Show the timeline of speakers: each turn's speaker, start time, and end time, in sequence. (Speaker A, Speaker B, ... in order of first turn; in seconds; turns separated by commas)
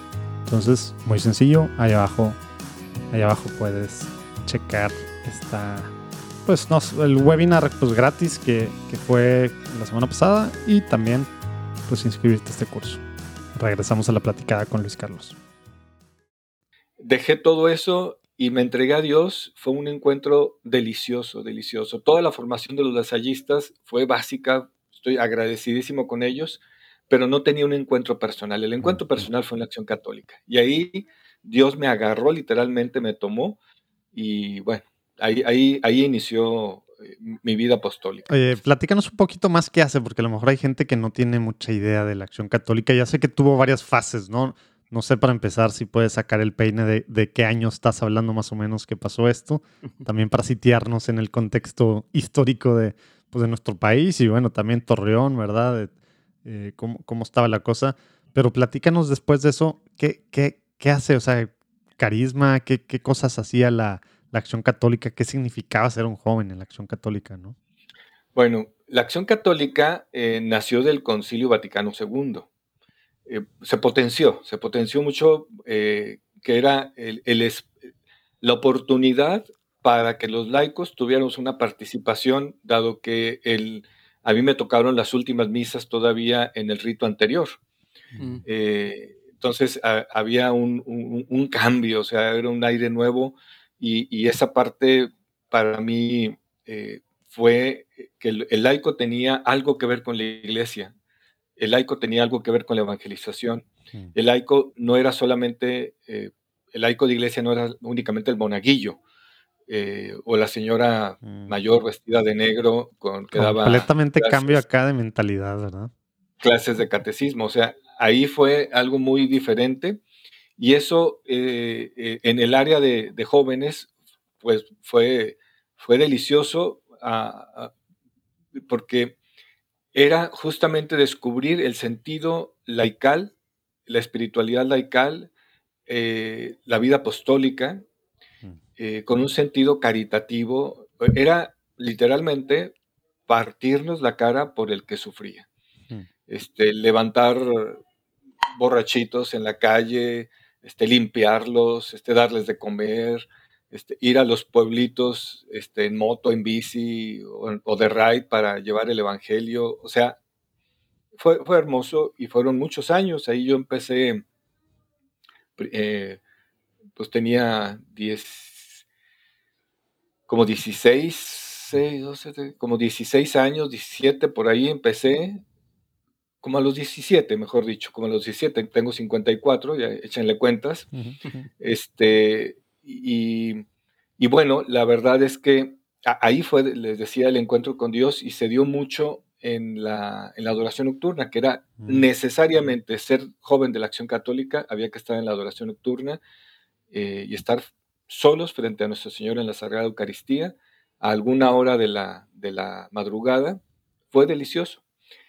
Speaker A: 0.5-2.4, Speaker A: 3.1-5.9, Speaker A: 6.4-11.3, Speaker A: 11.9-13.0, Speaker A: 13.5-15.3, Speaker B: 17.0-33.6, Speaker A: 28.8-29.2, Speaker B: 34.1-38.6, Speaker A: 38.3-55.9, Speaker A: 56.4-67.5, Speaker B: 68.3-72.5, Speaker B: 73.3-77.7, Speaker B: 78.4-87.6, Speaker B: 88.5-100.9, Speaker B: 101.6-109.0, Speaker B: 109.7-114.6, Speaker A: 111.2-111.5, Speaker A: 113.3-115.9, Speaker B: 116.4-120.0, Speaker B: 120.6-123.9, Speaker B: 124.4-127.7, Speaker B: 128.6-129.2, Speaker B: 129.9-133.3, Speaker B: 133.9-135.3, Speaker B: 135.9-137.8, Speaker B: 138.8-142.7, Speaker B: 143.3-145.5, Speaker B: 146.3-147.8, Speaker B: 148.6-160.2, Speaker B: 161.2-164.2, Speaker B: 165.6-166.2, Speaker B: 167.0-168.8, Speaker B: 170.3-175.4, Speaker B: 176.4-180.8, Speaker A: 180.9-181.5, Speaker B: 181.6-183.6, Speaker B: 184.2-196.2, Speaker A: 191.8-192.0, Speaker B: 196.9-203.6, Speaker B: 204.1-204.8